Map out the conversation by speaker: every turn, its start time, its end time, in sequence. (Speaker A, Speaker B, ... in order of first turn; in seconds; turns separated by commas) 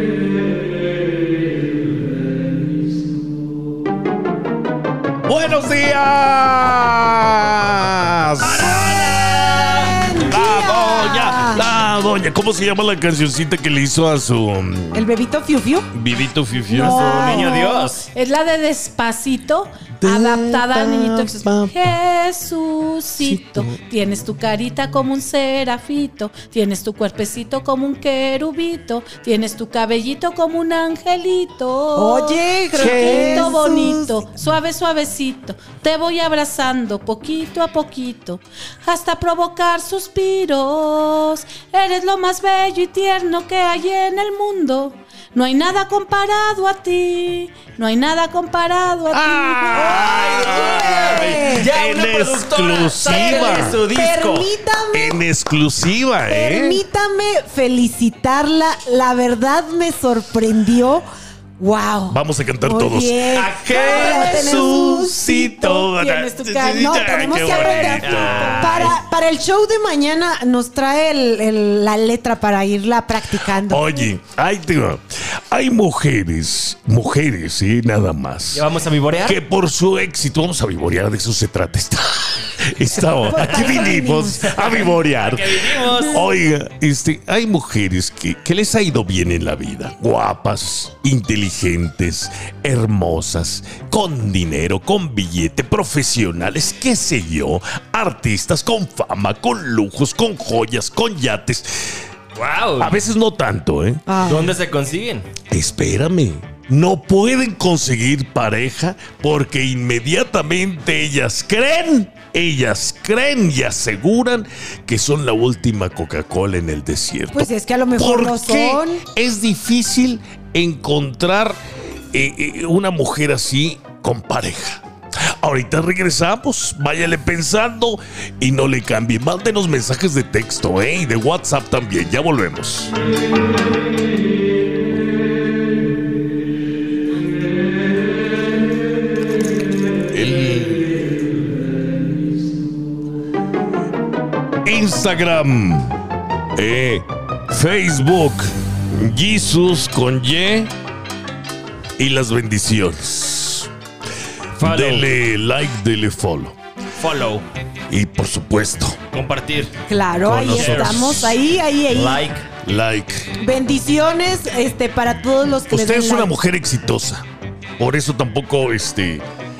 Speaker A: 5.3-9.1, Speaker B: 8.4-10.1, Speaker C: 9.3-11.7, Speaker A: 10.3-15.0, Speaker C: 14.9-15.9, Speaker A: 15.9-17.1, Speaker C: 16.7-17.9, Speaker B: 16.7-18.1, Speaker D: 17.1-50.0, Speaker A: 20.0-21.7, Speaker A: 23.2-23.7, Speaker C: 31.9-34.1, Speaker A: 49.1-53.8, Speaker C: 49.7-51.7, Speaker B: 49.8-54.5, Speaker C: 53.0-55.2, Speaker A: 54.9-56.8, Speaker C: 56.3-61.0, Speaker C: 61.6-65.6, Speaker A: 62.1-68.9, Speaker B: 63.3-64.5, Speaker D: 65.3-68.0, Speaker C: 66.7-74.1, Speaker B: 67.9-69.0, Speaker A: 73.7-78.6, Speaker B: 78.5-79.4, Speaker A: 79.2-101.9, Speaker B: 83.2-86.3, Speaker C: 83.3-84.6, Speaker B: 102.3-103.0, Speaker A: 102.8-104.0, Speaker C: 104.1-104.6, Speaker B: 104.2-105.3, Speaker A: 105.5-121.6, Speaker C: 117.3-119.0, Speaker A: 122.1-124.8, Speaker A: 125.4-132.9, Speaker A: 140.1-140.9, Speaker A: 144.6-145.9, Speaker A: 146.6-150.7, Speaker A: 152.0-153.7, Speaker B: 154.6-155.1, Speaker A: 154.6-156.6, Speaker B: 157.0-157.4, Speaker A: 157.9-159.0, Speaker B: 159.1-159.7, Speaker C: 159.9-162.2, Speaker A: 160.2-161.4, Speaker B: 160.4-161.2, Speaker B: 161.9-162.5, Speaker A: 162.6-163.3, Speaker C: 163.4-166.3, Speaker A: 165.7-167.2, Speaker A: 167.8-169.2